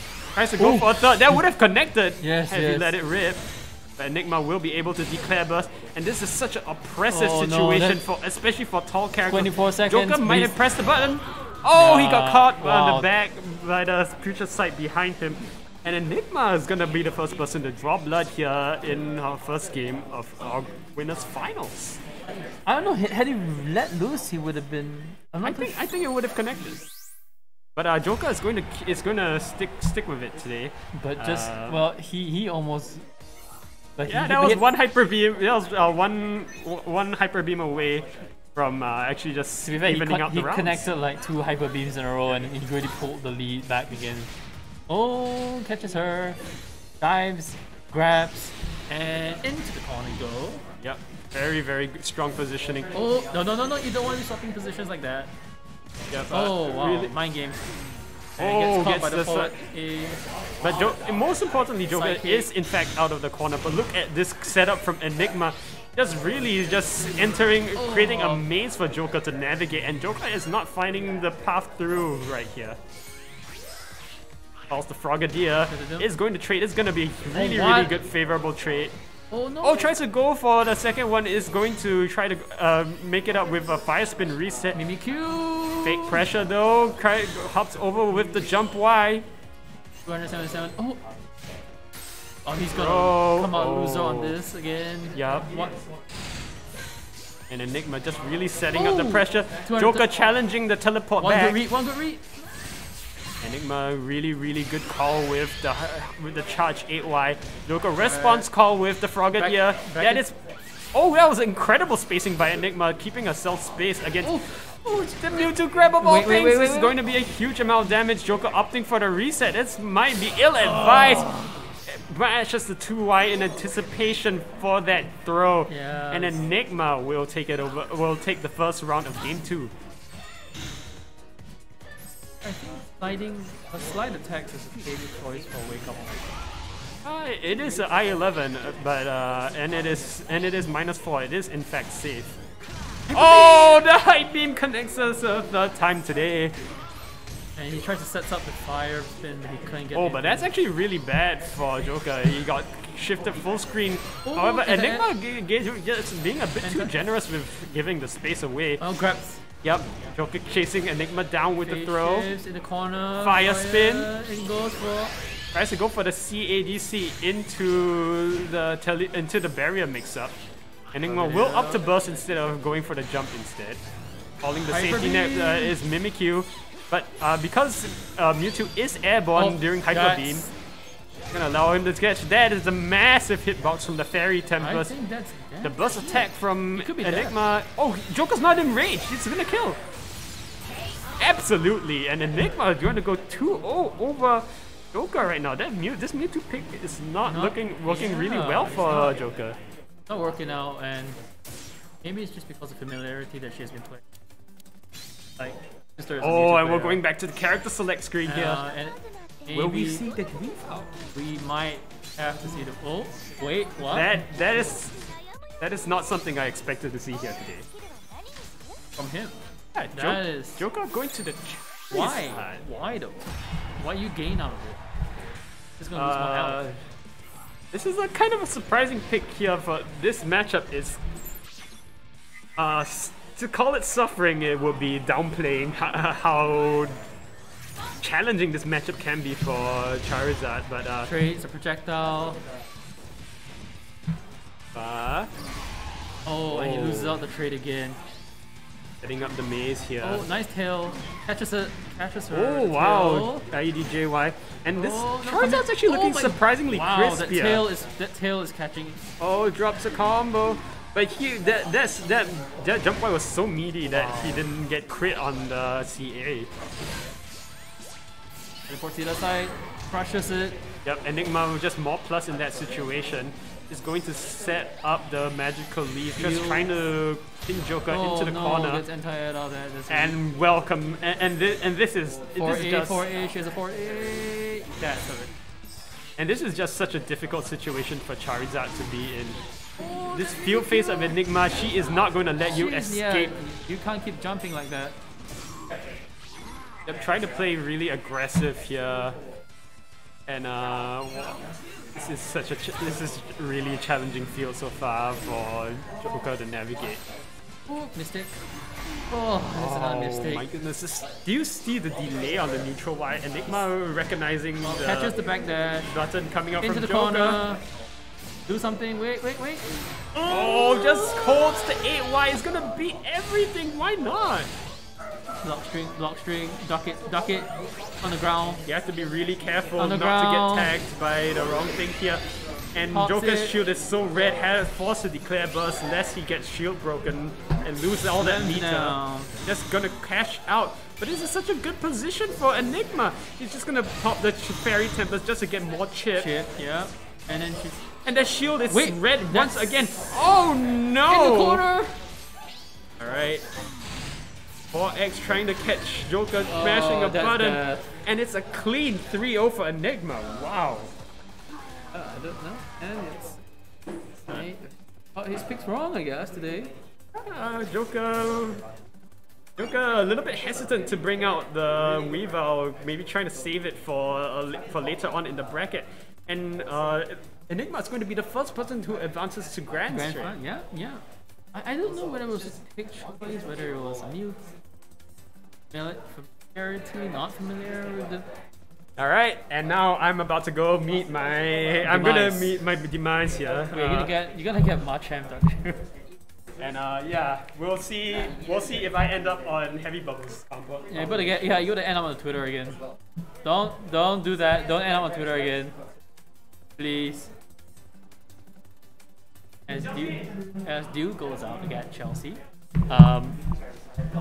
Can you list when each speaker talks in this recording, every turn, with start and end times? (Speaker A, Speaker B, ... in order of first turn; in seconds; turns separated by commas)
Speaker A: 0.3-22.0, Speaker B: 0.6-1.4, Speaker B: 2.2-3.0, Speaker B: 7.1-8.0, Speaker B: 9.3-10.5, Speaker B: 11.7-13.1, Speaker B: 22.7-25.7, Speaker A: 25.4-26.9, Speaker A: 27.8-31.8, Speaker B: 30.9-33.0, Speaker B: 34.0-34.6, Speaker A: 34.1-40.9, Speaker B: 39.6-44.3, Speaker B: 44.9-46.4, Speaker B: 47.0-50.6, Speaker A: 50.8-53.0, Speaker B: 52.9-55.3, Speaker A: 56.1-57.1, Speaker B: 56.3-57.6, Speaker B: 58.4-60.2, Speaker A: 58.4-59.5, Speaker A: 60.6-72.8, Speaker B: 61.9-62.5, Speaker B: 67.8-68.5, Speaker A: 74.7-78.9, Speaker B: 75.7-76.1, Speaker B: 77.3-78.0, Speaker B: 79.3-80.0, Speaker A: 79.6-84.8, Speaker B: 84.7-86.2, Speaker A: 85.8-89.3, Speaker B: 90.0-91.0, Speaker B: 92.5-95.8, Speaker A: 92.7-94.4, Speaker A: 95.1-95.7, Speaker A: 97.5-101.7, Speaker B: 98.7-100.0, Speaker B: 101.2-102.2, Speaker A: 103.4-110.4, Speaker B: 108.0-108.5, Speaker B: 109.3-110.2, Speaker A: 110.9-114.4, Speaker B: 114.2-117.0, Speaker A: 115.2-129.7, Speaker B: 120.6-121.7, Speaker B: 125.7-126.5, Speaker B: 132.4-136.3, Speaker A: 137.0-142.4, Speaker B: 143.1-143.8, Speaker A: 143.1-146.6, Speaker B: 147.6-150.5, Speaker A: 149.9-158.8, Speaker B: 154.3-155.1, Speaker B: 156.6-157.0, Speaker B: 158.8-159.4, Speaker A: 159.6-162.3, Speaker B: 161.6-165.1, Speaker A: 163.2-164.1, Speaker A: 165.5-170.4, Speaker A: 170.9-173.8, Speaker B: 171.1-172.1, Speaker A: 174.4-180.5, Speaker B: 174.7-175.8, Speaker B: 179.3-180.5, Speaker A: 181.3-184.9, Speaker B: 184.6-187.4, Speaker A: 185.6-189.8, Speaker A: 191.2-199.6, Speaker B: 197.2-199.2, Speaker B: 200.1-201.2, Speaker B: 202.0-204.0, Speaker B: 205.4-207.0, Speaker A: 206.2-208.6, Speaker B: 208.2-210.2, Speaker A: 209.5-210.9, Speaker B: 211.1-214.3, Speaker A: 213.9-215.1, Speaker A: 215.6-217.7, Speaker B: 219.0-219.4, Speaker A: 219.8-222.7, Speaker B: 219.9-220.7, Speaker B: 221.9-224.8, Speaker B: 225.8-226.7, Speaker A: 225.9-226.8, Speaker A: 227.7-231.0, Speaker A: 232.6-237.0, Speaker A: 238.0-241.1, Speaker B: 241.1-242.4, Speaker A: 244.7-245.3, Speaker B: 246.3-248.0, Speaker A: 246.5-247.2, Speaker A: 249.0-250.3, Speaker B: 250.0-253.5, Speaker A: 252.3-257.7, Speaker B: 254.8-259.0, Speaker A: 259.2-266.5, Speaker B: 263.9-264.4, Speaker B: 268.7-270.6, Speaker A: 270.9-278.9, Speaker B: 276.2-276.7, Speaker B: 277.9-280.2, Speaker A: 279.9-283.1, Speaker B: 282.4-285.3, Speaker A: 286.2-289.4, Speaker B: 289.8-291.1, Speaker A: 290.1-293.4, Speaker B: 292.5-295.0, Speaker A: 296.9-299.2, Speaker A: 300.3-301.4, Speaker A: 301.9-307.0, Speaker B: 307.7-308.4, Speaker B: 309.1-310.5, Speaker A: 309.5-315.2, Speaker B: 314.6-315.9, Speaker A: 315.8-317.4, Speaker B: 316.6-317.6, Speaker B: 318.5-321.5, Speaker A: 320.2-324.5, Speaker B: 325.4-328.6, Speaker A: 328.7-332.2, Speaker B: 329.8-330.8, Speaker A: 332.8-346.3, Speaker B: 332.9-333.6, Speaker B: 338.2-339.4, Speaker B: 346.2-347.8, Speaker A: 348.1-351.7, Speaker B: 348.7-350.0, Speaker B: 351.1-352.0, Speaker A: 353.0-353.4, Speaker A: 354.7-360.9, Speaker B: 356.4-357.9, Speaker B: 361.9-363.4, Speaker B: 364.3-366.7, Speaker A: 367.1-368.6, Speaker A: 369.6-380.3, Speaker B: 379.9-381.0, Speaker B: 381.5-384.4, Speaker B: 385.7-388.3, Speaker A: 389.0-394.1, Speaker B: 391.8-392.6, Speaker B: 393.7-395.9, Speaker A: 396.6-401.3, Speaker B: 400.9-402.8, Speaker B: 403.4-405.8, Speaker B: 406.8-407.3, Speaker B: 409.7-413.4